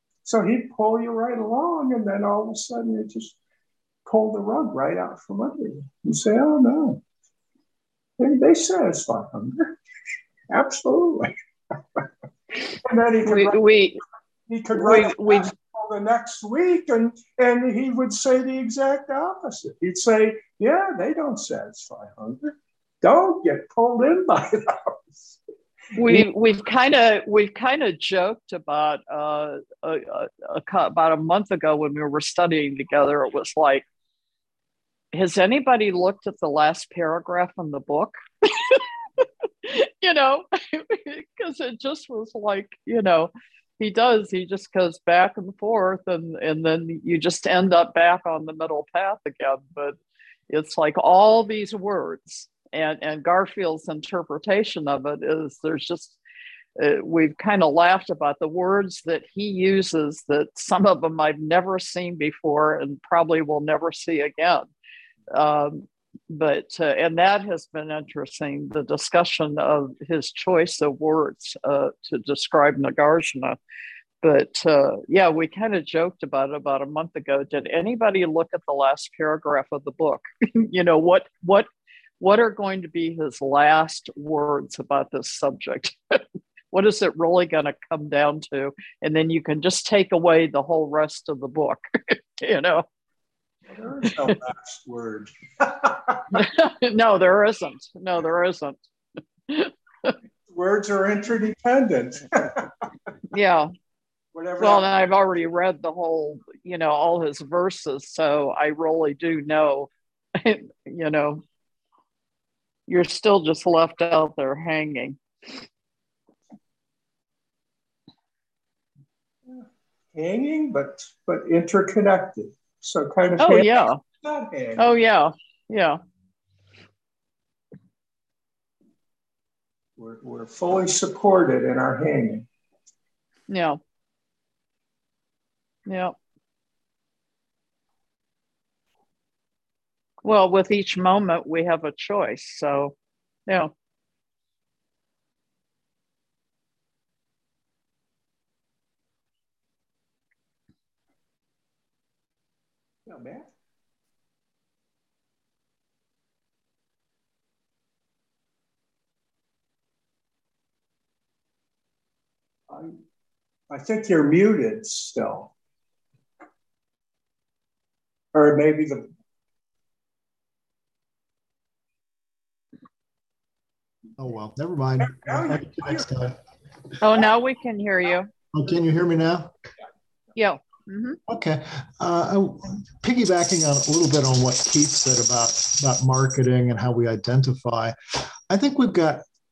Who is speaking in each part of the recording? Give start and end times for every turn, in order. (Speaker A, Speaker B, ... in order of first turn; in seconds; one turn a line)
Speaker A: 0.2-3.3
Speaker A: 4.0-7.0
Speaker A: 8.2-9.7
Speaker A: 10.5-11.3
Speaker A: 12.5-13.7
Speaker B: 13.2-14.0
Speaker A: 14.5-24.9
Speaker B: 14.7-15.5
Speaker B: 25.9-33.8
Speaker B: 35.1-50.0
Speaker B: 50.5-56.2
Speaker B: 56.8-64.7
Speaker B: 65.3-73.6
Speaker B: 74.2-81.7
Speaker B: 82.2-86.2
Speaker B: 86.7-92.8
Speaker A: 93.7-96.2
Speaker B: 96.3-98.8
Speaker B: 99.5-100.1
Speaker A: 100.5-102.7
Speaker B: 103.3-103.7
Speaker A: 104.3-104.9
Speaker B: 104.6-111.4
Speaker B: 112.9-115.6
Speaker A: 119.5-124.9
Speaker B: 123.4-124.0
Speaker B: 124.8-126.0
Speaker A: 130.0-132.5
Speaker B: 133.5-133.8
Speaker B: 135.8-136.1
Speaker B: 140.2-142.9
Speaker B: 143.5-143.7
Speaker A: 153.1-153.5
Speaker A: 162.7-163.0
Speaker A: 163.7-165.5
Speaker A: 168.3-169.1
Speaker C: 174.2-176.4
Speaker A: 175.1-176.1
Speaker B: 177.0-178.3
Speaker C: 178.5-179.5
Speaker B: 180.3-181.2
Speaker C: 181.3-188.0
Speaker C: 188.5-189.2